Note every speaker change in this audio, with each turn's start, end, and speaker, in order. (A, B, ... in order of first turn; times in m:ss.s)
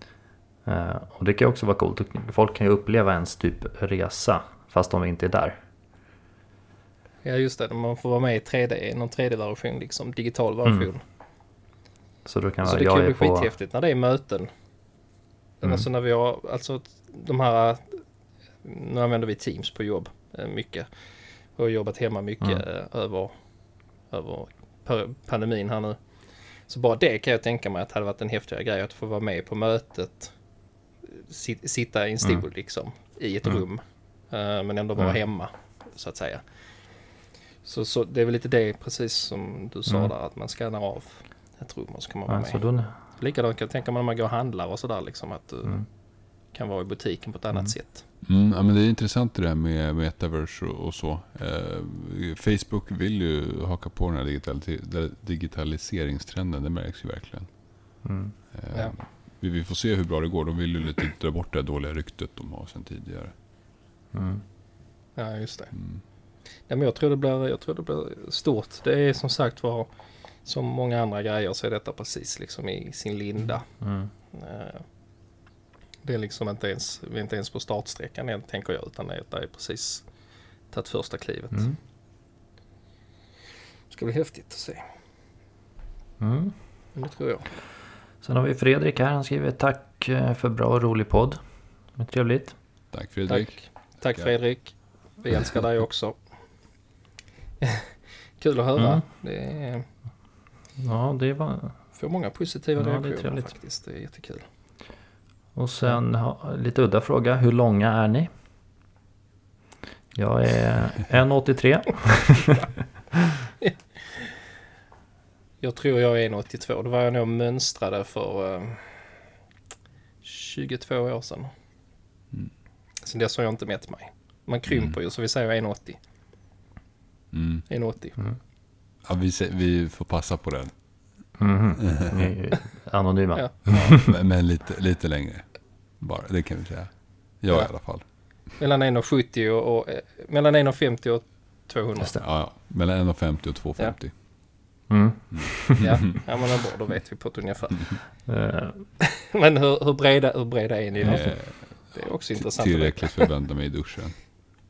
0:00.6-0:05.6 A
0:07.2-0:11.0 B
0:10.6-0:10.9 A
0:12.2-0:13.5 A
0:12.6-0:14.5 B
0:15.6-0:18.0 B
0:18.6-0:20.9 B
0:21.4-0:23.3 B
0:24.0-0:26.0 B
0:26.5-0:30.3 B
0:31.0-0:36.4 B
0:37.6-0:45.8 B
0:42.3-0:42.9 A
0:46.5-0:48.0 B
0:48.2-0:57.5 C
0:58.0-0:58.4 A
0:58.5-1:03.3 C
1:04.1-1:04.4 A
1:05.2-1:05.7 B
1:05.7-1:06.0 C
1:06.7-1:09.9 B
1:10.4-1:13.7 B
1:13.8-1:14.1 A
1:14.3-1:14.8 B
1:16.0-1:20.0 B
1:20.7-1:21.7 B
1:21.5-1:21.8 A
1:23.9-1:24.8 B
1:26.2-1:26.5 A
1:26.9-1:27.5 B
1:28.2-1:31.4 A
1:31.9-1:32.6 A
1:32.9-1:34.3 C
1:33.3-1:36.2 B
1:37.6-1:39.9 B
1:38.8-1:39.0 A
1:40.8-1:41.8 A
1:41.9-1:44.4 B
1:42.8-1:43.5 A
1:45.5-1:48.3 A
1:50.1-1:52.6 A
1:53.6-1:54.4 B
1:55.6-1:59.3 B
2:00.2-2:01.5 B
2:03.0-2:06.0 B
2:04.7-2:05.0 C
2:07.3-2:07.7 C
2:07.7-2:08.2 B
2:09.0-2:10.8 C
2:11.4-2:14.1 A
2:11.8-2:12.1 C
2:13.3-2:14.0 B
2:13.7-2:18.0 C
2:18.5-2:22.2 B
2:22.2-2:24.1 C
2:24.9-2:25.8 A
2:25.3-2:26.0 C
2:25.8-2:28.1 B
2:28.3-2:28.8 A
2:29.0-2:33.3 B
2:31.0-2:34.3 C
2:31.0-2:31.3 A